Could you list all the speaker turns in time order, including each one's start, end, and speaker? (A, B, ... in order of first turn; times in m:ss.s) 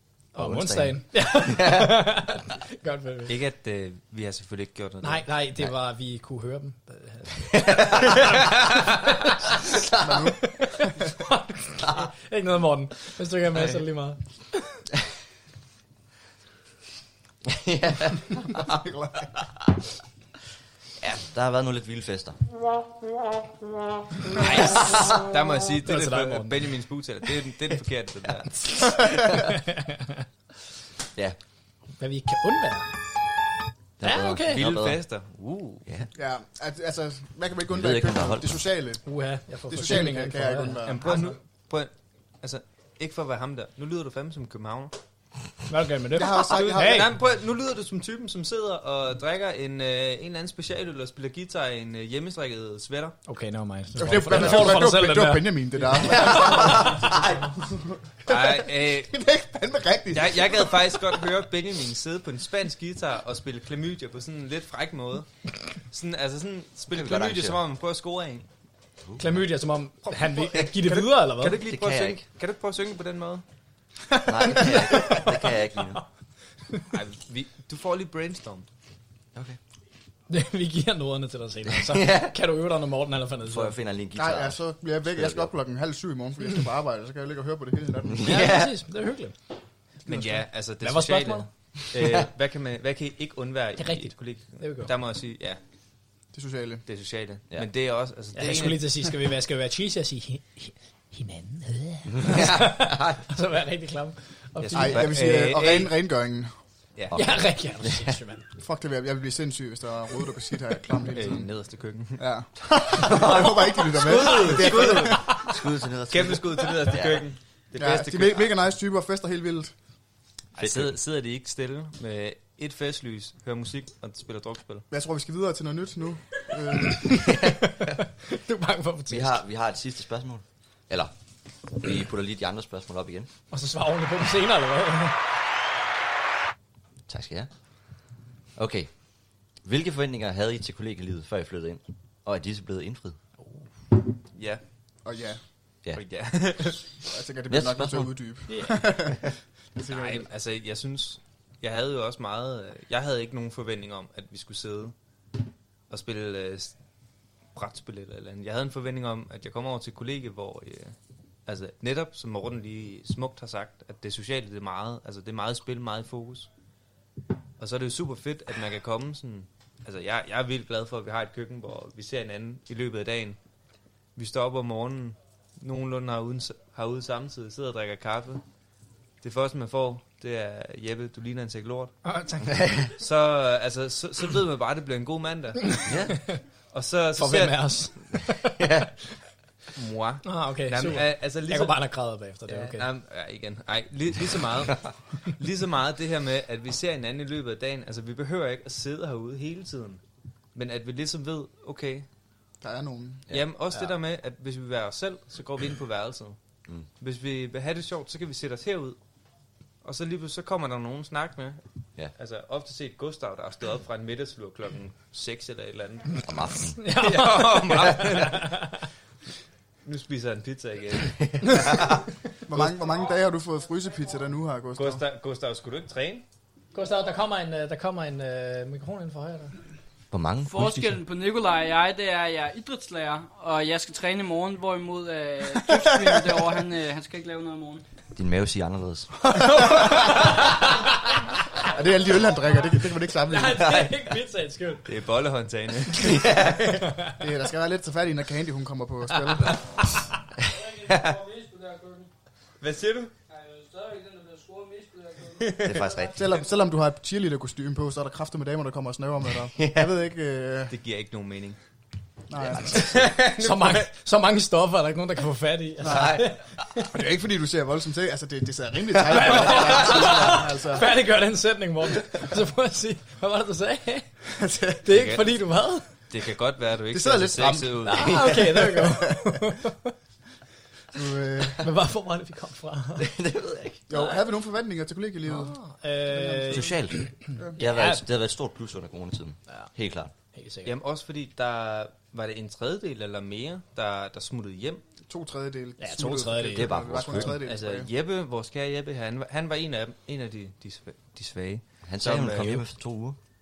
0:00.3-0:02.2 A
0:00.3-0:03.3 B
0:03.3-0:05.3 C
0:05.0-0:08.1 B
0:07.5-0:08.5 A
0:09.0-0:09.8 B
0:10.0-0:10.9 D
0:10.4-0:14.2 B
0:17.4-0:18.8 A
0:18.6-0:19.3 D
0:21.0-0:22.4 A
0:24.3-0:25.2 A
0:24.5-0:25.2 B
0:24.6-0:29.0 C
0:25.8-0:26.6 B
0:29.2-0:30.2 B
0:32.0-0:32.9 B
0:34.0-0:35.0 A
0:34.0-0:34.6 B
0:34.5-0:35.8 C
0:36.1-0:39.0 D
0:37.7-0:38.6 A
0:39.0-0:41.2 B
0:39.7-0:41.2 D
0:40.8-0:44.9 C
0:45.7-0:47.1 B
0:46.1-0:47.1 D
0:46.3-0:53.2 C
0:53.3-0:55.6 B
0:54.0-1:01.1 D
0:56.2-0:57.0 A
0:58.3-0:59.1 C
1:00.1-1:05.3 C
1:05.9-1:08.5 C
1:06.9-1:07.6 A
1:09.0-1:09.4 A
1:09.2-1:11.6 B
1:10.1-1:13.4 C
1:11.6-1:12.2 A
1:14.2-1:15.3 D
1:14.2-1:16.0 A
1:16.9-1:18.7 C
1:20.3-1:23.7 B
1:21.8-1:22.3 A
1:23.5-1:25.5 A
1:24.1-1:28.5 D
1:28.1-1:28.8 A
1:28.2-1:29.4 B
1:30.0-1:32.0 B
1:30.0-1:35.6 C
1:33.8-1:34.9 B
1:36.3-1:36.8 D
1:36.9-1:39.0 C
1:38.3-1:45.2 B
1:42.1-1:43.2 A
1:44.6-1:45.9 C
1:44.7-1:46.5 D
1:47.1-1:48.1 A
1:47.1-1:48.5 B
1:48.6-1:51.5 D
1:51.1-1:52.2 C
1:52.2-1:55.4 D
1:53.0-1:57.2 A
1:54.0-1:55.4 C
1:56.1-1:58.5 C
1:57.8-1:59.7 D
2:00.6-2:04.8 C
2:00.6-2:00.9 A
2:04.9-2:07.2 D
2:06.7-2:09.4 B
2:07.2-2:07.9 A
2:09.1-2:11.1 A
2:11.7-2:13.3 A
2:13.5-2:15.2 B
2:17.1-2:17.5 A
2:18.6-2:18.9 A
2:19.6-2:23.2 A
2:24.3-2:24.6 C
2:25.0-2:25.4 D
2:25.9-2:26.8 C
2:27.0-2:30.3 D
2:27.5-2:28.1 A
2:28.5-2:28.8 B
2:29.9-2:34.9 C
2:35.9-2:36.7 C
2:37.5-2:40.9 C
2:41.5-2:46.5 C
2:47.6-2:53.4 C
2:54.2-2:58.4 C
2:59.2-3:02.0 C
3:02.0-3:02.6 B
3:02.5-3:02.9 A
3:03.0-3:05.8 C
3:05.8-3:06.4 B
3:05.8-3:06.2 A
3:06.7-3:07.8 C
3:07.2-3:08.6 B
3:08.5-3:08.9 A
3:09.7-3:11.8 C
3:10.2-3:12.8 B
3:12.5-3:20.0 C
3:20.5-3:22.1 C
3:22.6-3:23.2 D
3:23.3-3:26.4 C
3:27.0-3:29.0 C
3:29.8-3:31.6 C
3:32.1-3:36.2 C
3:36.2-3:37.0 A
3:36.8-3:38.8 B
3:36.9-3:38.6 C
3:39.8-3:41.9 C
3:41.4-3:42.0 A
3:42.5-3:45.0 D
3:44.8-3:46.2 C
3:46.7-3:49.6 B
3:50.1-3:51.0 A
3:50.4-3:57.8 E
3:58.1-3:59.3 A
3:59.3-4:00.2 D
4:01.6-4:03.8 D
4:03.2-4:04.8 B
4:03.5-4:03.9 A
4:04.8-4:06.4 C
4:05.9-4:07.0 A
4:06.8-4:07.2 B
4:07.2-4:09.6 D
4:10.4-4:12.1 E
4:12.6-4:13.1 C
4:13.3-4:16.1 E
4:15.4-4:15.8 C
4:15.6-4:16.2 A
4:16.1-4:20.7 D
4:19.5-4:19.9 A
4:20.7-4:21.6 C
4:22.3-4:23.1 D
4:22.6-4:23.8 C
4:22.7-4:26.9 B
4:25.8-4:26.2 D
4:25.8-4:26.2 A
4:26.8-4:31.0 D
4:29.0-4:34.1 B
4:34.4-4:34.8 D
4:34.8-4:35.9 B
4:34.9-4:35.3 C
4:36.1-4:38.2 C
4:36.9-4:39.4 D
4:37.9-4:39.9 B
4:40.9-4:41.7 D
4:41.5-4:43.1 B
4:43.0-4:43.8 A
4:43.9-4:45.6 D
4:45.2-4:48.0 B
4:46.2-4:46.7 D
4:46.4-4:50.1 A
4:50.3-4:50.7 B
4:50.6-4:54.8 C
4:55.1-4:57.9 D
4:55.8-4:57.0 B
4:56.5-4:57.4 A
4:57.4-5:02.6 C
5:01.8-5:03.2 A